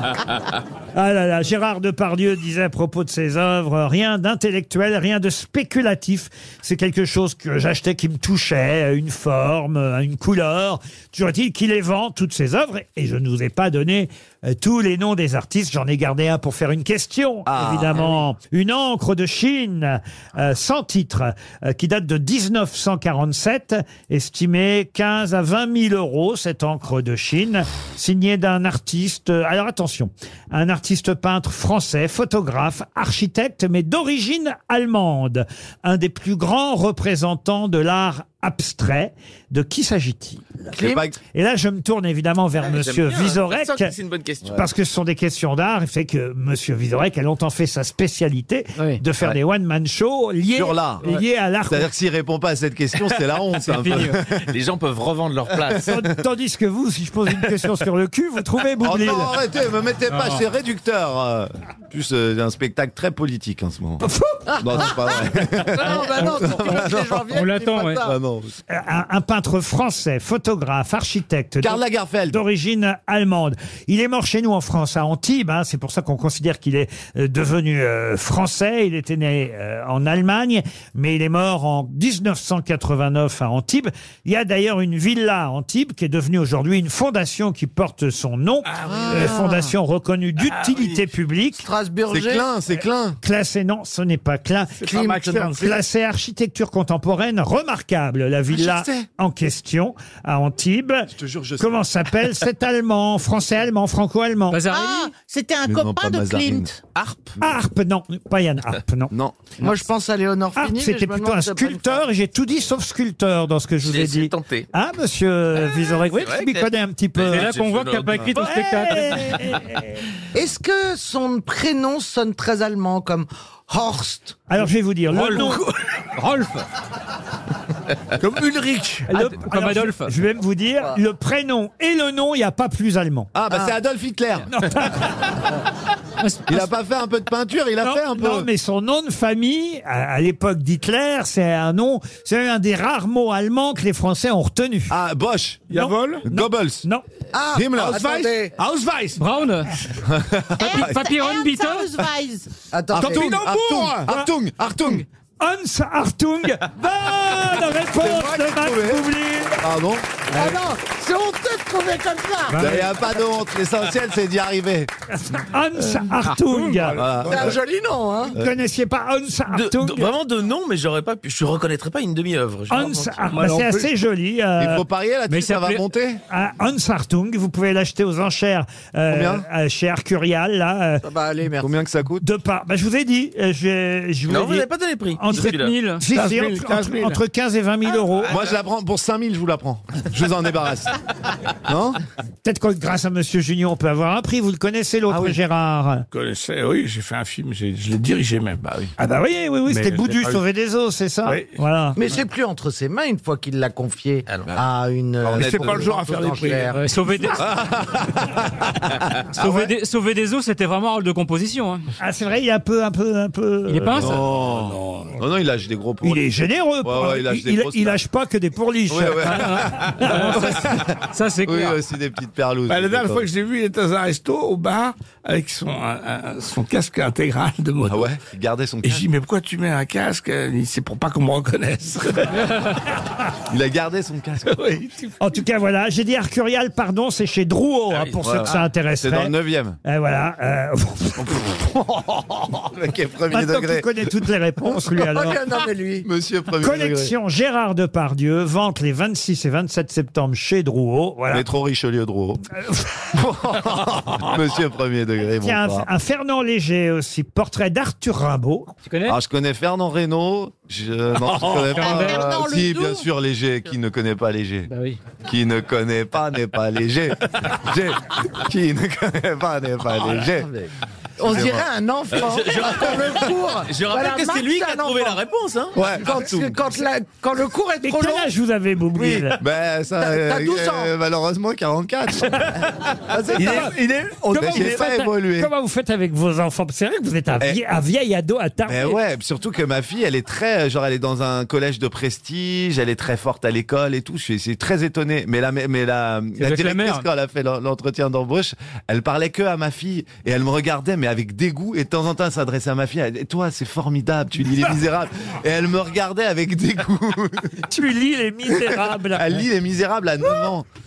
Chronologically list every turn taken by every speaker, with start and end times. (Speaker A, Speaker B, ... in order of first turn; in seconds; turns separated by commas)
Speaker A: 0.9-40.7, Speaker B: 17.4-18.2, Speaker B: 40.7-41.1, Speaker C: 40.8-41.1, Speaker A: 41.3-43.9, Speaker D: 42.6-44.6, Speaker A: 44.5-51.9, Speaker E: 48.8-49.0, Speaker B: 50.5-51.0, Speaker B: 51.7-54.5, Speaker E: 53.6-54.2, Speaker D: 54.5-55.9, Speaker B: 55.8-56.0, Speaker A: 55.8-59.3, Speaker B: 58.8-64.0, Speaker E: 60.1-60.4, Speaker A: 64.0-64.4, Speaker C: 64.5-68.2, Speaker B: 64.6-67.3, Speaker E: 66.4-68.0, Speaker B: 68.0-68.5, Speaker A: 68.7-91.6, Speaker B: 71.6-72.4, Speaker F: 88.7-89.4, Speaker B: 88.8-89.6, Speaker F: 90.5-90.9, Speaker C: 91.6-92.5, Speaker B: 92.1-93.2, Speaker A: 93.2-94.8, Speaker F: 94.8-95.8, Speaker C: 94.8-95.5, Speaker A: 95.6-104.6, Speaker B: 98.5-99.1, Speaker B: 101.1-101.8, Speaker E: 104.5-105.1, Speaker G: 104.6-106.9, Speaker B: 105.7-106.7, Speaker D: 107.0-107.2, Speaker A: 107.4-109.1, Speaker B: 109.1-109.3, Speaker C: 109.6-112.0, Speaker A: 110.5-117.5, Speaker D: 113.8-114.7, Speaker D: 116.1-118.5, Speaker E: 117.3-119.3, Speaker A: 118.4-120.0, Speaker C: 120.3-124.4, Speaker A: 124.5-125.6, Speaker F: 125.1-125.7, Speaker E: 126.1-126.6, Speaker F: 128.2-129.1, Speaker A: 129.1-133.3, Speaker E: 129.1-130.1, Speaker B: 133.3-134.5, Speaker A: 134.5-135.1, Speaker E: 136.2-136.7, Speaker B: 136.5-138.5, Speaker A: 137.8-144.9, Speaker B: 144.9-145.7, Speaker F: 145.7-146.2, Speaker A: 145.7-147.0, Speaker B: 146.2-146.8, Speaker C: 147.3-148.5, Speaker B: 147.5-148.3, Speaker F: 148.6-149.2, Speaker E: 149.2-149.7, Speaker B: 150.0-151.0, Speaker G: 150.6-152.5, Speaker E: 150.6-151.9, Speaker C: 152.7-153.3, Speaker B: 152.9-155.0, Speaker F: 152.9-154.1, Speaker A: 155.4-159.6, Speaker B: 158.0-159.1, Speaker B: 159.6-160.1, Speaker C: 160.3-162.8, Speaker E: 162.5-162.9, Speaker B: 162.5-164.9, Speaker A: 165.1-167.0, Speaker F: 166.3-167.6, Speaker B: 166.9-167.6, Speaker C: 167.2-168.3, Speaker A: 168.3-170.1, Speaker D: 169.5-173.2, Speaker A: 172.7-174.8, Speaker F: 173.3-173.9, Speaker B: 174.6-176.2, Speaker E: 175.3-175.8, Speaker A: 176.3-181.0, Speaker B: 179.1-179.4, Speaker C: 181.0-181.7, Speaker B: 181.6-182.2, Speaker A: 182.2-188.4, Speaker D: 184.3-185.8, Speaker E: 185.4-186.0, Speaker F: 186.1-187.2, Speaker B: 188.2-190.9, Speaker B: 191.6-192.0, Speaker A: 192.4-196.1, Speaker B: 195.1-195.3, Speaker F: 196.1-198.6, Speaker A: 199.0-202.0, Speaker F: 199.7-200.4, Speaker F: 201.2-201.6, Speaker C: 201.9-206.9, Speaker D: 204.3-204.6, Speaker B: 205.2-205.9, Speaker F: 205.3-206.8, Speaker E: 206.7-207.5, Speaker B: 207.2-209.7, Speaker E: 209.3-211.8, Speaker A: 212.0-214.1, Speaker E: 213.7-214.2, Speaker B: 213.9-216.2, Speaker F: 214.3-215.1, Speaker A: 216.0-220.4, Speaker B: 216.8-218.0, Speaker B: 218.9-223.3, Speaker E: 219.2-221.8, Speaker F: 222.7-228.1, Speaker B: 227.8-229.1, Speaker F: 228.8-232.7, Speaker B: 233.5-234.6, Speaker F: 234.5-235.1, Speaker A: 235.2-241.5, Speaker D: 237.9-238.2, Speaker B: 238.2-239.8, Speaker B: 241.4-243.9, Speaker A: 243.3-245.4, Speaker C: 244.9-246.1, Speaker B: 246.0-247.1, Speaker A: 246.6-251.4, Speaker B: 251.3-252.4, Speaker B: 253.1-255.9, Speaker A: 255.4-258.7, Speaker E: 258.9-259.2, Speaker B: 259.1-264.7, Speaker E: 261.6-262.4, Speaker G: 261.7-263.1, Speaker E: 264.7-265.0, Speaker B: 265.2-270.5, Speaker C: 271.2-275.2, Speaker B: 271.2-271.7, Speaker D: 272.1-275.8, Speaker B: 275.7-276.6, Speaker C: 275.9-278.3, Speaker A: 277.8-279.4, Speaker C: 279.0-279.3, Speaker B: 279.3-283.8, Speaker C: 280.0-280.9, Speaker F: 283.3-284.9, Speaker A: 283.3-283.7, Speaker A: 284.3-289.0, Speaker B: 284.3-285.5, Speaker B: 288.7-307.5, Speaker E: 296.4-297.1, Speaker A: 307.7-309.4, Speaker B: 309.1-310.6